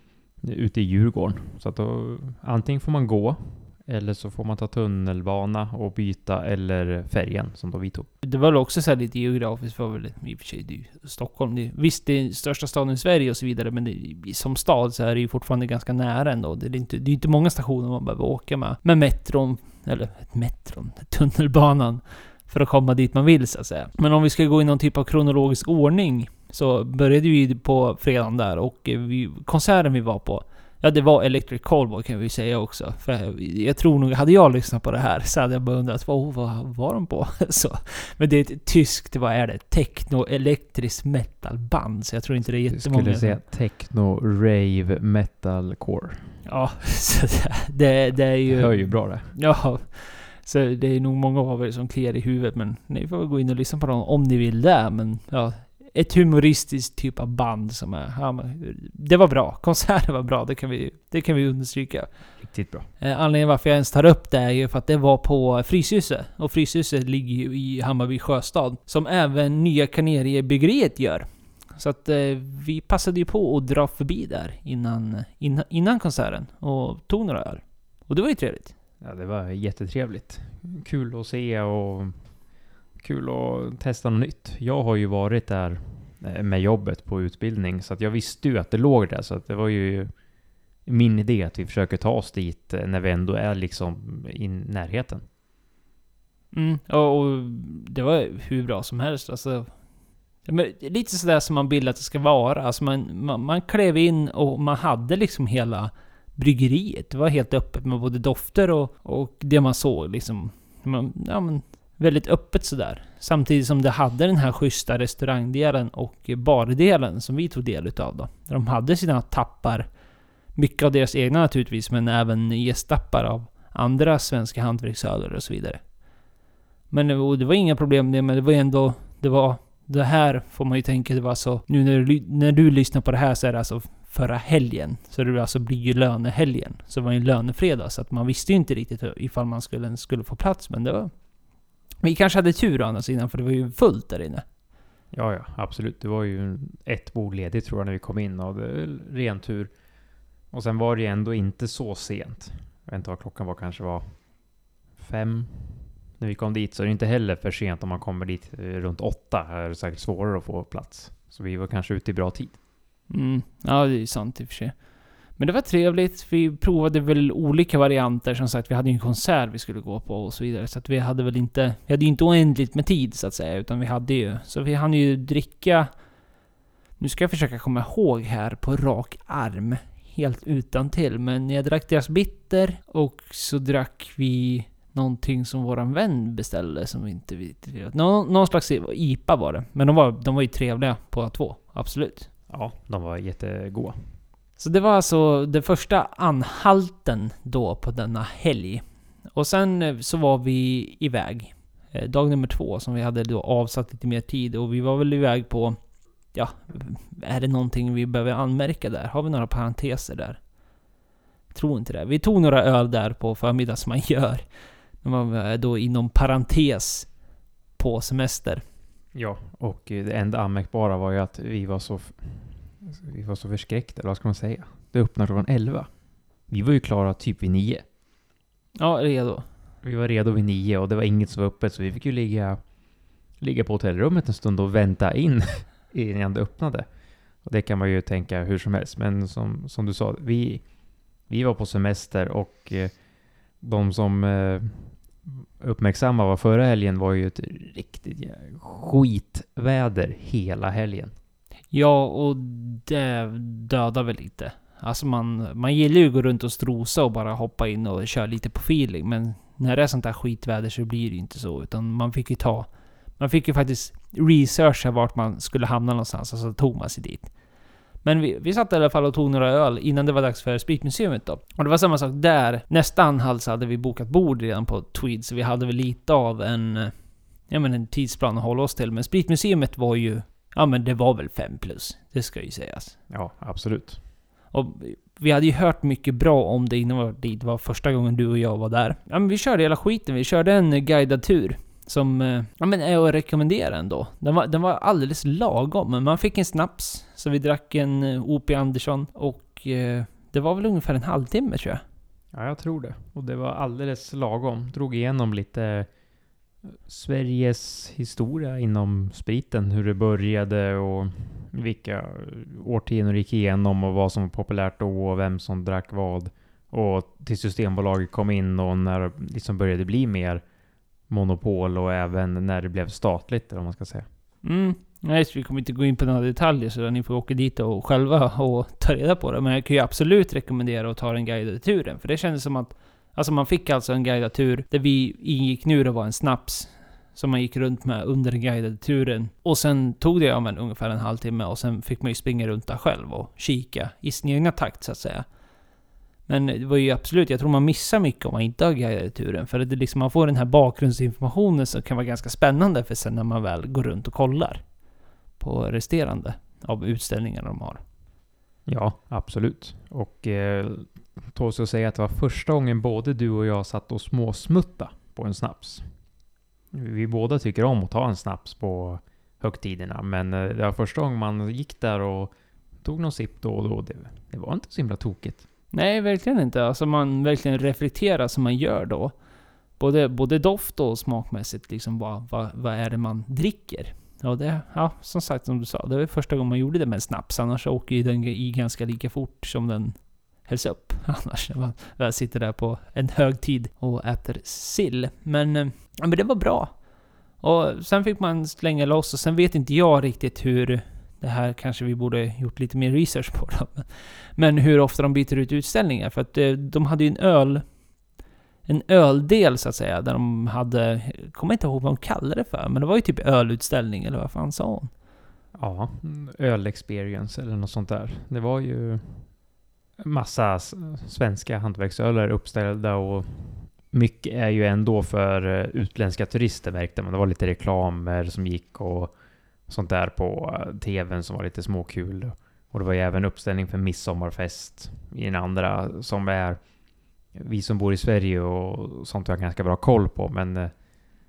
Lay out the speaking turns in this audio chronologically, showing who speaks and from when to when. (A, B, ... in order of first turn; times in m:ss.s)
0:00.4-0:08.1 A
0:08.2-0:43.4 B
0:42.7-0:46.4 A
0:46.4-1:02.1 B
0:48.5-0:49.3 A
1:02.4-1:02.9 A
1:03.0-1:18.7 B
1:19.0-1:22.3 A
1:23.0-1:30.1 A
1:30.9-1:35.2 A
1:36.5-1:39.8 B
1:40.4-1:59.9 B
2:00.6-2:05.8 B
2:06.9-2:21.1 B
2:22.0-2:24.4 B
2:25.1-2:29.7 A
2:30.5-2:34.2 A
2:35.0-2:42.6 A
2:43.1-2:44.8 B
2:45.4-2:55.9 B
2:57.0-3:12.3 B
3:12.5-3:14.2 A
3:14.6-3:18.8 B
3:19.3-3:25.8 B
3:26.3-3:30.4 B
3:31.5-3:34.4 B
3:35.0-3:37.1 B
3:37.8-3:38.6 B
3:39.1-3:45.9 A
3:46.5-3:47.8 A
3:48.8-3:49.5 B
3:49.8-3:52.6 A
3:53.4-3:56.9 A
3:57.4-4:00.6 A
4:01.3-4:03.0 A
4:03.6-4:11.1 A
4:11.7-4:27.3 B
4:28.0-4:36.9 B
4:37.5-4:43.0 B
4:43.1-4:44.0 A
4:44.5-5:01.8 B
5:02.3-5:05.9 A
5:06.7-5:20.4 A
5:21.1-5:24.1 A
5:24.4-5:45.3 B
5:46.3-5:54.6 B
5:55.4-5:57.8 B
5:58.7-6:05.9 A
6:06.7-6:15.4 A
6:15.7-6:19.2 B
6:19.8-6:36.8 B
6:37.4-6:47.6 B
6:48.7-6:54.9 B
6:55.6-6:59.3 A
7:00.0-7:09.1 A
7:09.7-7:16.6 A
7:17.3-7:20.7 A